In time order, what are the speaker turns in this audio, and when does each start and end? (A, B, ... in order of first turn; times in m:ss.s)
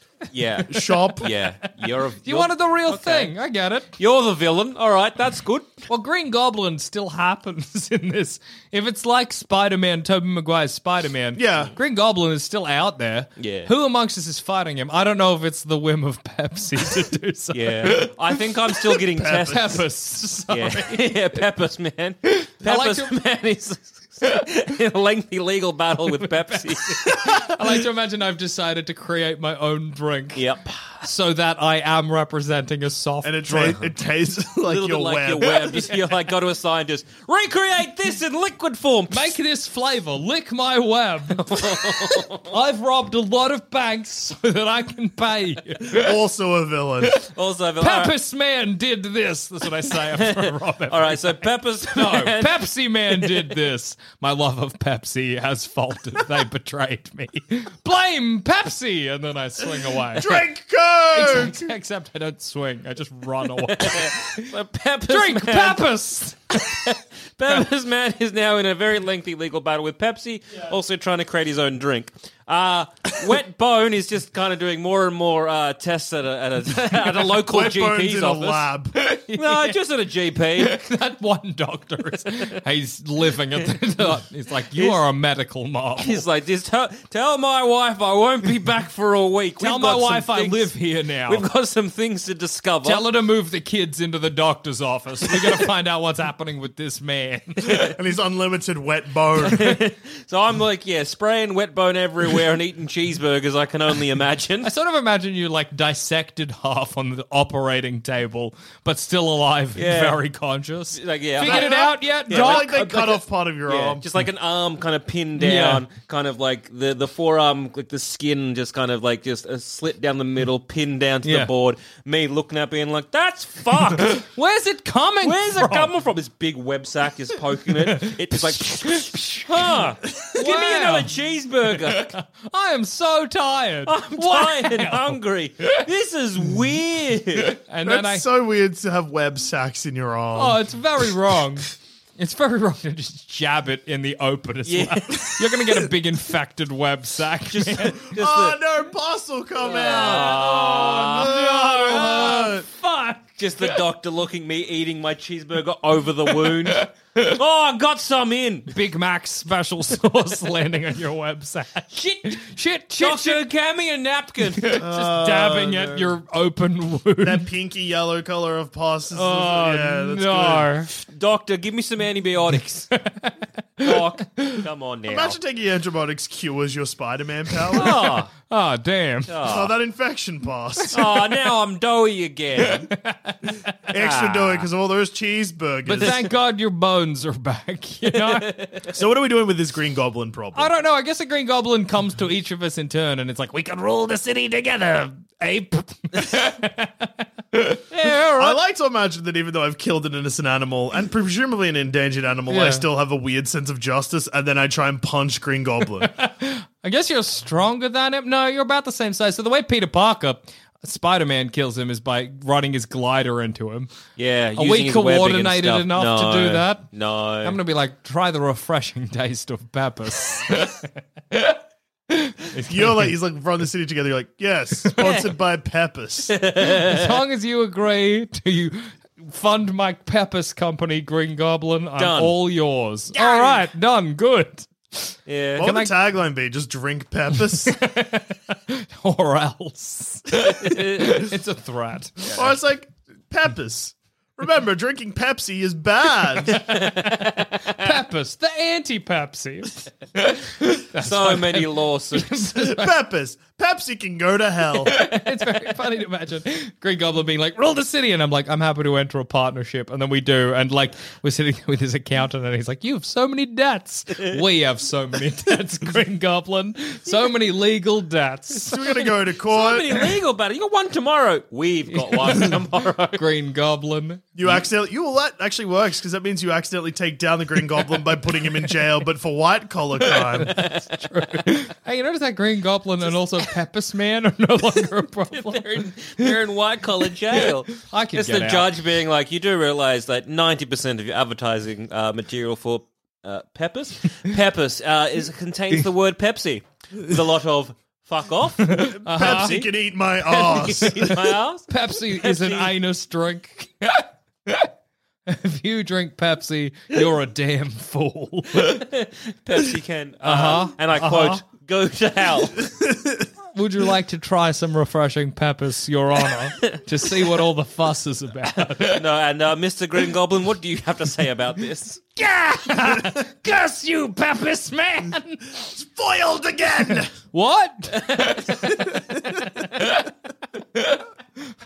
0:00.3-0:03.3 A
0:00.7-0:01.3 B
0:00.8-0:01.4 C
0:02.2-0:03.9 C
0:04.0-0:05.8 A
0:05.9-0:18.1 C
0:11.3-0:11.7 B
0:13.4-0:13.7 A
0:17.5-0:19.8 A
0:18.9-0:21.4 C
0:19.2-0:19.6 B
0:20.5-0:27.3 A
0:22.3-0:23.1 C
0:26.2-0:30.4 C
0:30.3-0:31.0 A
0:31.0-0:33.8 C
0:33.2-0:35.7 B
0:34.7-0:39.4 A
0:39.1-0:46.2 C
0:41.3-0:42.5 A
0:45.9-0:47.2 B
0:47.2-0:48.1 A
0:47.8-1:00.4 C
0:50.0-0:53.5 A
1:00.1-1:01.7 B
1:01.1-1:04.5 C
1:03.6-1:05.9 A
1:05.1-1:06.8 C
1:06.5-1:18.7 A
1:17.2-1:18.9 B
1:18.9-1:19.8 C
1:19.4-1:20.8 A
1:20.6-1:26.2 C
1:26.0-1:30.7 A
1:29.6-1:31.5 C
1:31.3-1:33.1 A
1:32.8-1:37.9 C
1:37.9-1:39.8 B
1:39.4-1:44.7 A
1:44.6-1:52.8 C
1:49.8-1:50.2 A
1:50.9-2:04.2 A
1:51.4-1:54.0 B
1:55.4-1:55.8 C
2:01.2-2:01.5 C
2:04.0-2:05.9 C
2:05.2-2:12.1 A
2:07.9-2:09.5 C
2:10.3-2:11.1 C
2:11.7-2:15.2 C
2:13.8-2:17.6 A
2:17.5-2:18.2 C
2:17.8-2:20.6 B
2:20.3-2:28.2 C
2:24.6-2:25.8 A
2:27.5-2:28.6 A
2:28.2-2:32.7 B
2:29.7-2:33.8 C
2:29.7-2:32.3 A
2:33.4-2:38.7 A
2:36.4-2:36.9 C
2:38.7-2:43.4 C
2:41.9-2:42.4 A
2:43.0-2:44.8 A
2:44.6-2:47.4 C
2:44.8-2:46.1 B
2:47.2-2:50.7 B
2:49.1-2:50.9 C
2:51.0-2:52.9 A
2:52.9-2:54.6 C
2:53.8-2:55.4 A
2:55.0-2:58.0 B
2:57.7-2:58.3 A
2:57.7-2:59.3 C
2:59.3-2:59.7 A
2:59.4-3:01.2 B
3:00.9-3:02.9 A
3:02.6-3:03.7 C
3:03.9-3:06.2 B
3:03.9-3:04.7 A
3:05.8-3:08.6 C
3:08.1-3:08.9 A
3:08.9-3:10.7 B
3:10.5-3:17.8 C
3:17.9-3:18.6 A
3:18.4-3:26.1 B
3:22.5-3:22.8 C
3:26.0-3:34.0 C
3:34.2-3:37.6 A
3:34.6-3:36.9 C
3:37.4-3:41.6 C
3:42.1-3:43.1 C
3:42.7-3:46.4 B
3:45.0-3:45.3 A
3:46.3-3:47.1 A
3:46.6-3:55.9 C
3:52.0-3:52.4 A
3:53.1-3:53.6 A
3:55.3-3:55.7 A
3:55.6-3:57.8 B
3:57.3-4:02.3 C
4:00.4-4:01.3 A
4:02.3-4:06.6 B
4:06.5-4:07.9 A
4:06.7-4:13.0 C
4:11.0-4:12.5 A
4:12.5-4:15.0 B
4:14.8-4:28.8 C
4:28.6-4:30.1 B
4:29.5-4:33.2 A
4:31.9-4:34.5 C
4:34.4-4:40.5 B
4:40.4-4:41.4 A
4:40.4-4:46.3 C
4:45.3-4:59.7 A
4:47.7-4:48.7 C
4:58.6-4:59.6 C
4:58.8-5:01.2 B
5:00.3-5:01.0 C
5:00.4-5:02.7 A
5:01.7-5:04.7 C
5:05.3-5:08.9 C
5:08.6-5:12.7 A
5:10.2-5:11.4 C
5:13.5-5:19.0 C
5:18.8-5:22.0 A
5:22.2-5:25.7 C
5:25.6-5:27.1 B
5:27.2-5:28.8 C
5:27.9-5:28.9 A
5:29.8-5:30.1 C
5:30.7-5:31.0 C